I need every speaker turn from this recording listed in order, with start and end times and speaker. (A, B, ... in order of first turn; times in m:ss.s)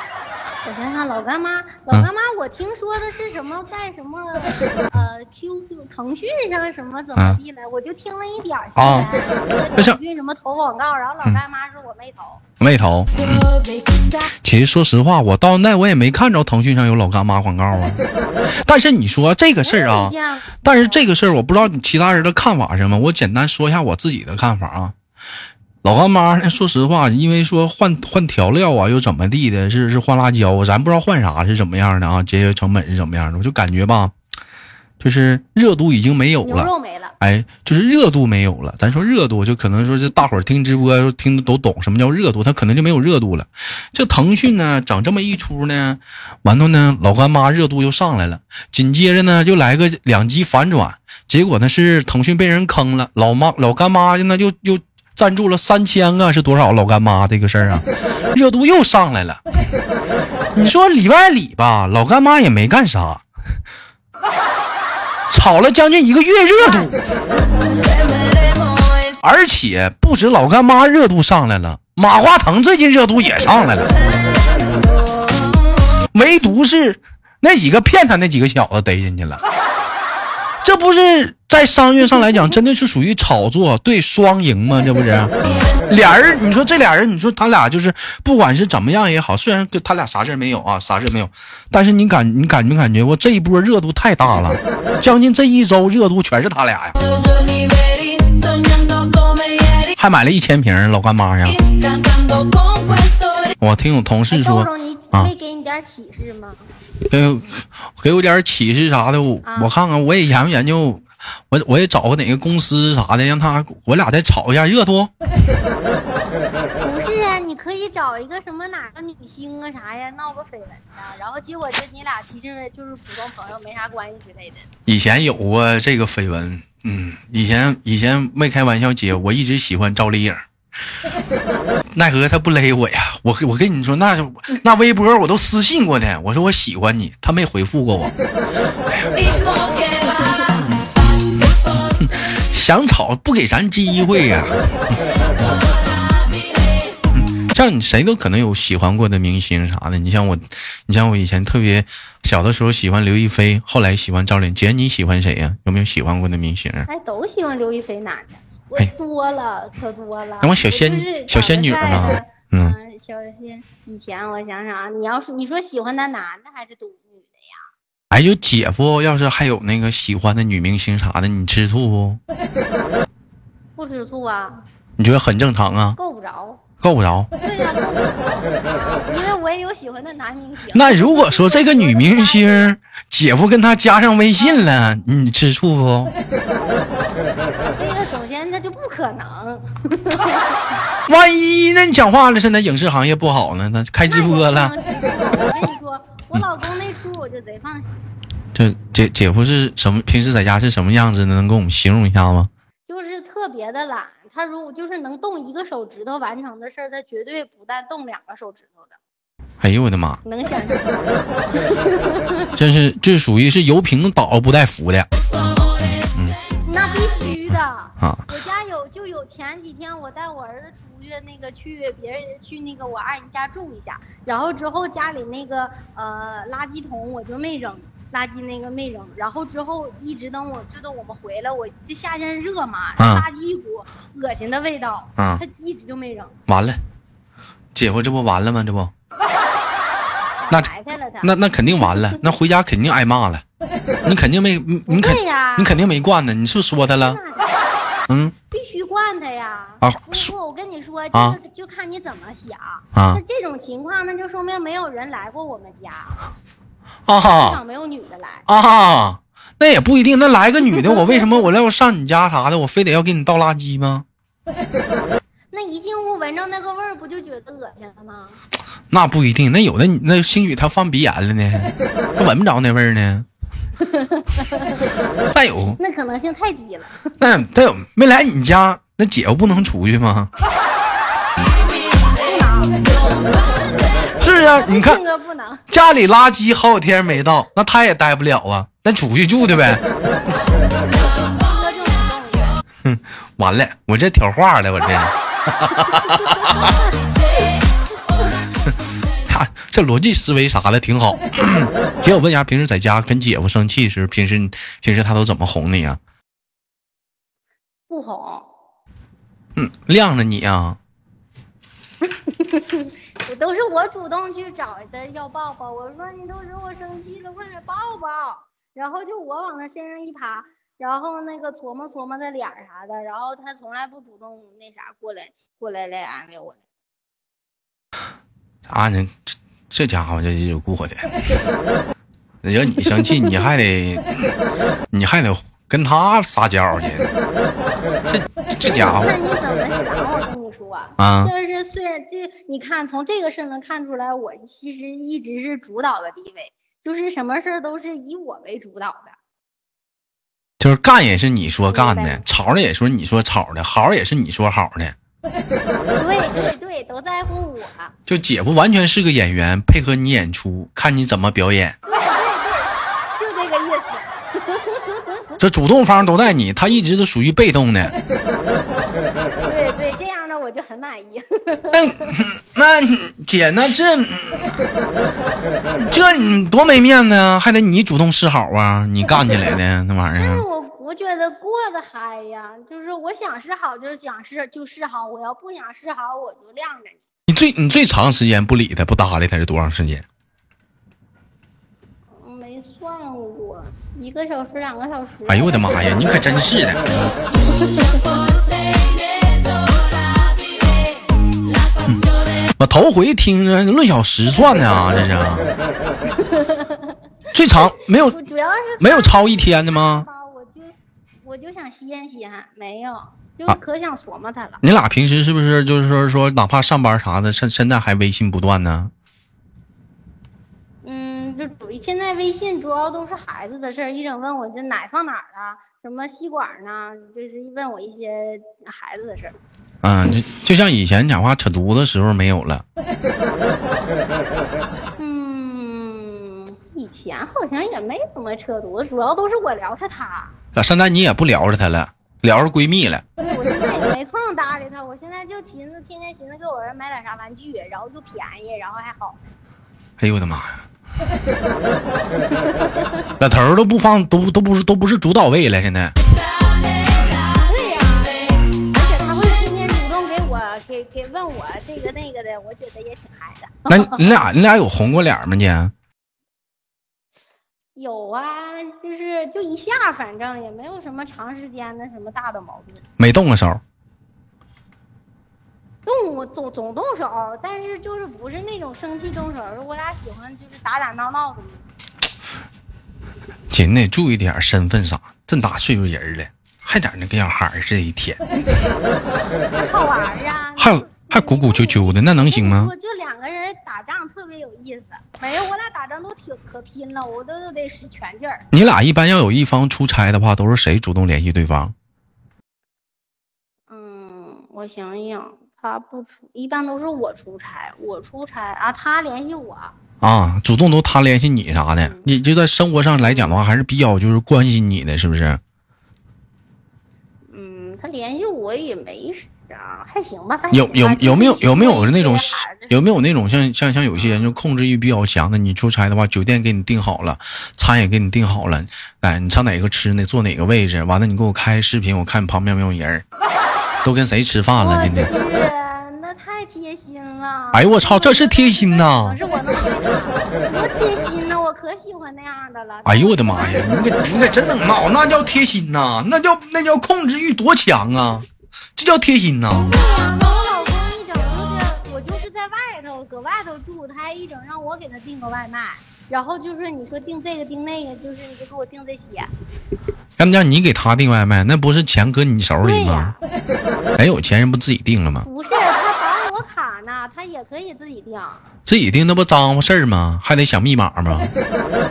0:00.6-0:12.4 A
0:08.8-0:09.1 B
0:12.6-0:13.5 B
0:14.2-0:18.0 B
0:18.6-0:24.9 B
0:19.6-0:21.0 A
0:25.8-0:34.1 B
0:35.0-0:59.4 B
0:36.4-0:37.1 A
1:00.5-1:03.2 B
1:05.3-1:07.0 B
1:09.2-1:13.9 B
1:16.1-1:19.4 B
1:20.6-1:25.3 B
1:25.9-1:37.0 B
1:39.9-1:41.6 B
1:43.6-1:45.3 B
1:44.3-1:46.7 A
1:47.1-1:55.1 B
1:49.4-1:49.7 A
1:56.8-2:04.7 A
2:04.9-2:10.4 B
2:11.9-2:18.1 B
2:22.0-2:24.9 B
2:27.2-2:36.9 B
2:36.9-2:47.6 A
2:40.4-2:42.7 B
2:48.1-2:52.2 B
2:53.8-2:54.6 A
2:55.0-2:56.0 B
2:56.0-2:56.6 A
2:56.8-2:57.3 B
2:57.4-3:02.8 A
3:00.7-3:06.1 B
3:07.7-3:10.6 A
3:11.1-3:14.7 B
3:14.0-3:18.0 A
3:18.5-3:22.5 B
3:22.9-3:29.0 A
3:29.6-3:30.2 B
3:30.2-3:32.5 A
3:32.6-3:35.1 B
3:35.8-3:36.4 B
3:36.6-3:56.3 A
3:53.0-3:53.2 B
3:55.2-3:55.4 B
3:56.5-3:56.8 B
3:57.7-3:58.9 B
4:00.4-4:01.4 A
4:01.2-4:03.4 B
4:04.0-4:07.2 B
4:04.9-4:05.8 A
4:07.0-4:07.6 A
4:08.1-4:08.3 B
4:08.5-4:16.2 A
4:09.8-4:10.3 B
4:11.1-4:11.4 B
4:12.9-4:13.2 B
4:17.1-4:17.6 B
4:17.2-4:18.4 A
4:18.5-4:24.0 B
4:20.7-4:21.5 A
4:25.5-4:28.4 A
4:28.9-4:33.3 B
4:33.8-4:34.9 A
4:35.3-4:35.8 B
4:35.8-4:37.1 A
4:37.2-4:40.3 B
4:41.4-4:43.8 A
4:44.2-4:45.0 B
4:44.4-4:45.6 A
4:45.7-4:49.8 B
4:50.9-4:52.6 A
4:52.8-4:56.8 B
4:56.2-4:56.8 A
4:59.3-5:06.0 B
5:07.9-5:08.5 A
5:09.5-5:10.8 B
5:12.1-5:26.6 A
5:28.7-5:29.2 B
5:29.7-5:31.1 B
5:32.4-5:34.3 B
5:32.9-5:33.4 A
5:34.9-5:37.0 B
5:38.0-5:39.1 B
5:38.6-5:49.2 A
5:41.0-5:41.3 B
5:50.6-5:54.9 B
5:51.7-5:52.2 A
5:56.0-5:57.9 A
5:58.1-6:01.8 B
6:01.8-6:05.4 A
6:05.4-6:07.9 B
6:09.4-6:12.2 A
6:11.7-6:14.6 B
6:15.8-6:20.4 B
6:19.1-6:19.3 A
6:20.2-6:27.0 A
6:27.3-6:30.0 B
6:32.2-6:35.8 A
6:35.3-6:36.8 B
6:42.6-6:45.5 B
6:46.1-6:47.0 A
6:47.3-6:48.2 B
6:48.0-6:54.6 A
6:48.8-6:50.0 B
6:54.6-6:58.9 B
7:00.8-7:09.4 A
7:09.8-7:12.6 B
7:15.0-7:20.3 A
7:20.5-7:23.0 B
7:23.2-7:29.2 A
7:30.0-7:30.6 B
7:32.4-7:33.1 A
7:33.2-7:35.9 B
7:37.4-7:44.2 A
7:43.7-7:45.7 B
7:47.8-7:52.8 A
7:53.0-7:53.6 B
7:55.8-8:01.7 A
8:03.5-8:08.2 B
8:09.6-8:18.4 A
8:10.6-8:12.7 B
8:18.5-8:21.7 B
8:23.7-8:29.7 A
8:30.0-8:35.4 B
8:31.8-8:32.1 A
8:33.0-8:33.3 A
8:37.3-8:42.8 A
8:40.5-8:53.0 B
8:53.8-8:55.1 B
8:54.6-9:03.6 A
8:57.5-8:59.2 B
9:02.8-9:09.7 B
9:09.6-9:19.3 A
9:20.2-9:23.2 B
9:22.6-9:23.2 A
9:24.0-9:25.2 B
9:25.2-9:28.4 A
9:28.7-9:31.3 B